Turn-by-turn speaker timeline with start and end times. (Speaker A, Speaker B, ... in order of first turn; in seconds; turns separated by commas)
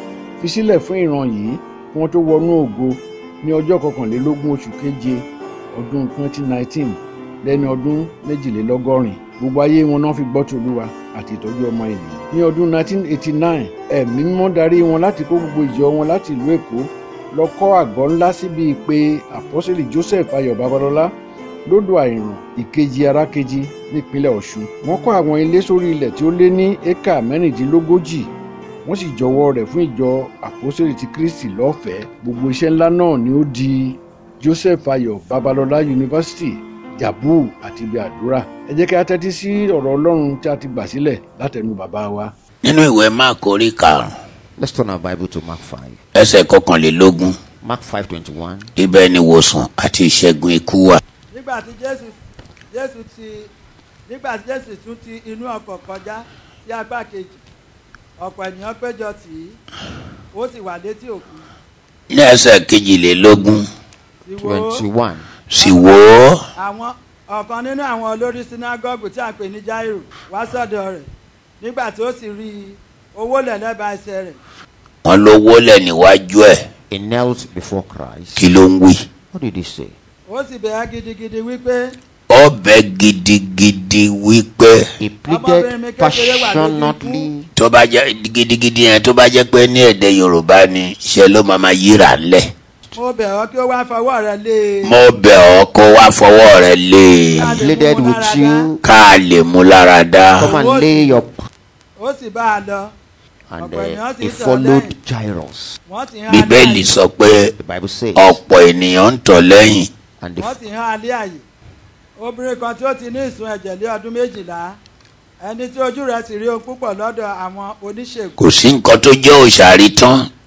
Speaker A: 0.4-21.1, Speaker A: 21.6-28.3, Speaker A: 28.8-42.3, Speaker B: 42.6-44.1, Speaker C: 44.6-46.0, Speaker B: 46.1-47.4, Speaker C: 47.6-48.7, Speaker B: 48.8-51.0, Speaker D: 51.3-52.2, Speaker D: 52.7-53.5, Speaker D: 54.1-57.4, Speaker D: 58.2-59.6, Speaker D: 60.3-61.4, Speaker B: 62.1-63.7, Speaker D: 64.2-64.8, Speaker C: 64.4-65.3, Speaker B: 65.5-66.4, Speaker D: 65.6-65.9, Speaker D: 66.5-71.1, Speaker D: 71.6-74.4, Speaker B: 75.0-76.6, Speaker C: 76.9-78.5, Speaker B: 78.3-79.1, Speaker C: 79.3-80.0, Speaker D: 80.3-81.9, Speaker B: 82.3-84.9, Speaker C: 85.0-87.5, Speaker D: 85.3-87.3, Speaker B: 87.5-92.5, Speaker D: 92.9-94.9, Speaker B: 94.8-97.6, Speaker D: 97.3-98.7, Speaker C: 97.6-98.8, Speaker B: 98.8-100.5, Speaker C: 100.4-101.3, Speaker D: 100.4-101.2, Speaker D: 102.0-102.9, Speaker C: 103.5-105.8, Speaker D: 103.6-104.9, Speaker D: 105.9-106.9, Speaker B: 106.3-107.5, Speaker C: 107.6-108.4, Speaker B: 108.2-109.9, Speaker C: 110.2-110.6, Speaker D: 110.4-111.4, Speaker D: 112.2-114.8, Speaker D: 115.4-118.3, Speaker B: 118.4-120.3